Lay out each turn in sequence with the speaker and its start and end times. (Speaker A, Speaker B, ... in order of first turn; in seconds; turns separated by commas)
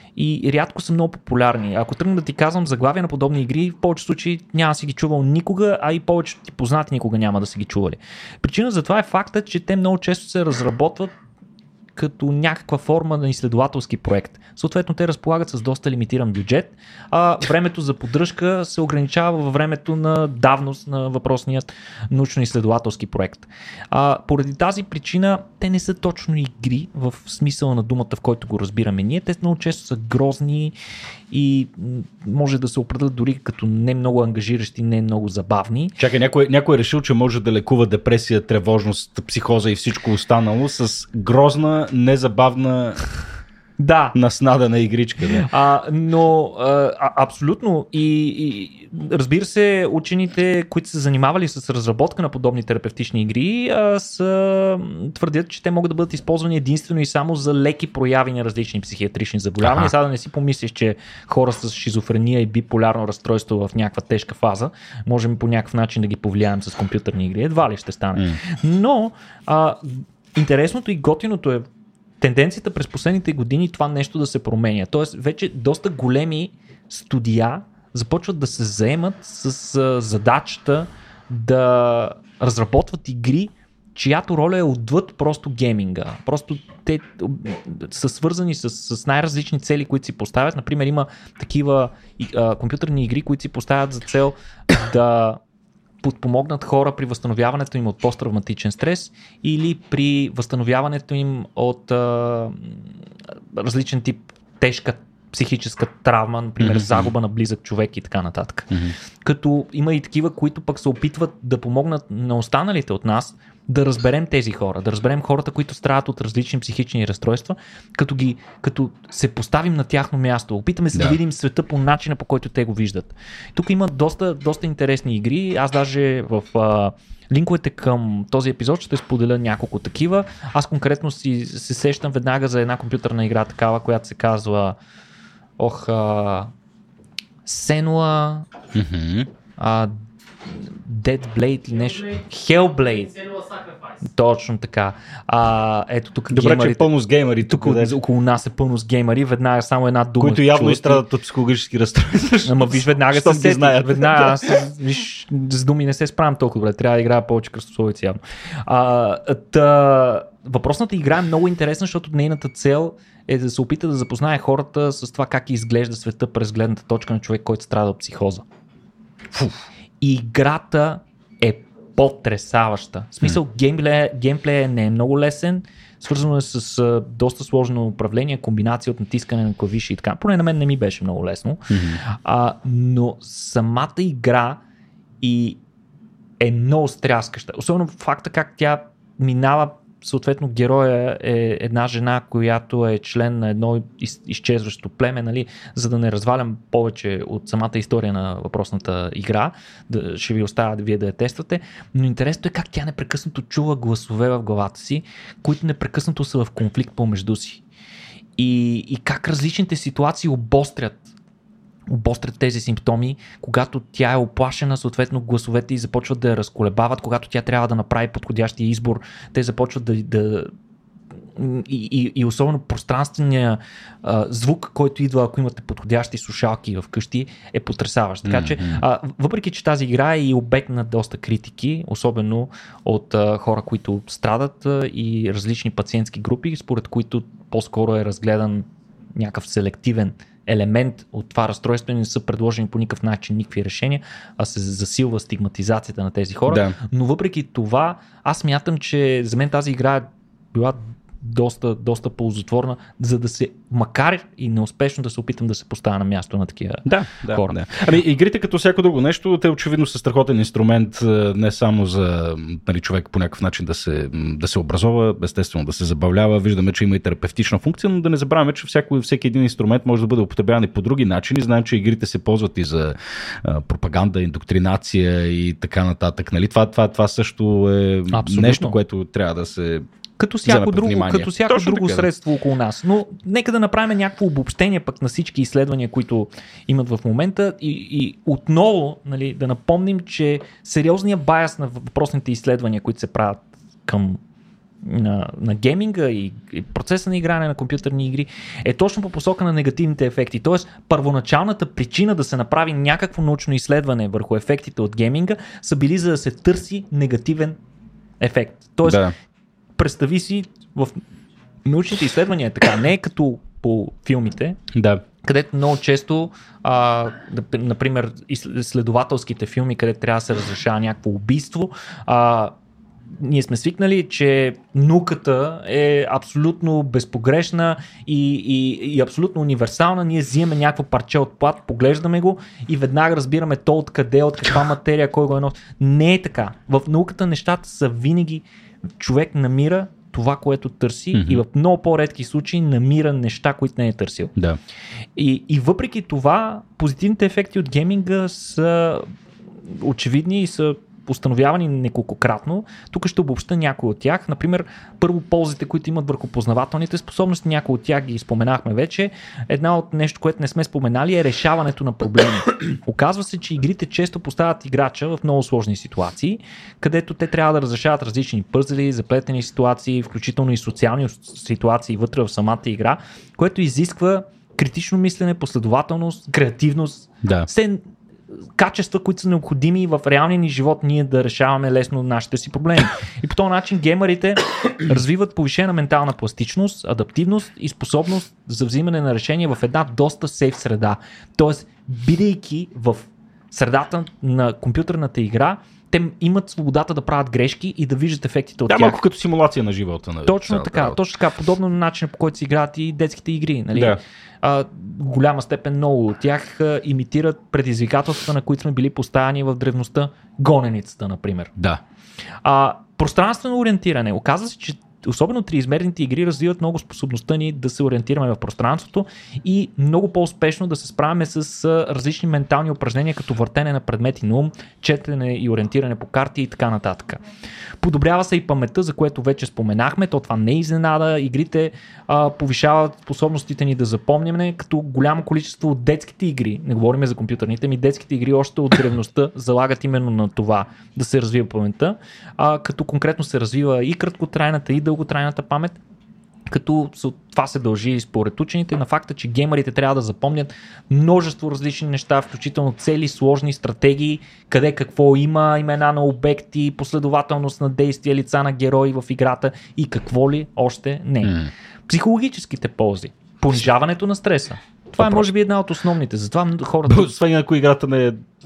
Speaker A: 0.2-11.1, Speaker A: 12.0-30.8, Speaker A: 31.3-36.0, Speaker B: 36.0-43.1, Speaker A: 43.8-44.2, Speaker B: 44.1-45.5, Speaker A: 45.4-71.7, Speaker B: 59.6-59.9, Speaker B: 68.2-68.4, Speaker A: 72.2-95.4, Speaker A: 96.0-102.9, Speaker A: 103.5-108.7, Speaker B: 106.6-107.1, Speaker A: 109.2-134.8, Speaker A: 135.6-136.5, Speaker A: 137.4-138.5, Speaker B: 138.7-139.3, Speaker A: 139.6-139.9, Speaker A: 140.5-143.4, Speaker A: 144.0-146.9, Speaker B: 146.3-148.0, Speaker A: 147.4-151.0, Speaker B: 150.2-154.6, Speaker A: 152.4-168.4, Speaker B: 169.3-169.6, Speaker A: 170.0-184.6, Speaker B: 181.7-182.0, Speaker A: 185.2-185.6, Speaker A: 186.4-207.6, Speaker A: 208.4-211.1, Speaker A: 211.9-220.5, Speaker A: 221.4-257.6, Speaker B: 228.2-228.8, Speaker B: 246.5-246.8, Speaker B: 256.9-279.9, Speaker A: 278.1-278.8, Speaker A: 280.2-294.2, Speaker B: 280.4-282.1, Speaker A: 294.8-307.6, Speaker A: 308.2-309.1, Speaker B: 308.9-309.1, Speaker A: 309.8-311.0, Speaker A: 311.6-314.6, Speaker B: 314.7-315.0, Speaker A: 315.2-322.5, Speaker A: 323.2-338.4, Speaker A: 339.0-344.3, Speaker B: 341.1-341.4, Speaker A: 345.2-349.1, Speaker A: 349.7-377.8, Speaker A: 378.6-399.0, Speaker B: 398.7-401.0, Speaker A: 400.3-411.5, Speaker B: 403.7-404.0, Speaker A: 412.4-427.2, Speaker A: 427.8-445.8, Speaker A: 446.5-467.2, Speaker B: 461.2-461.5, Speaker B: 465.0-465.3, Speaker B: 466.9-468.2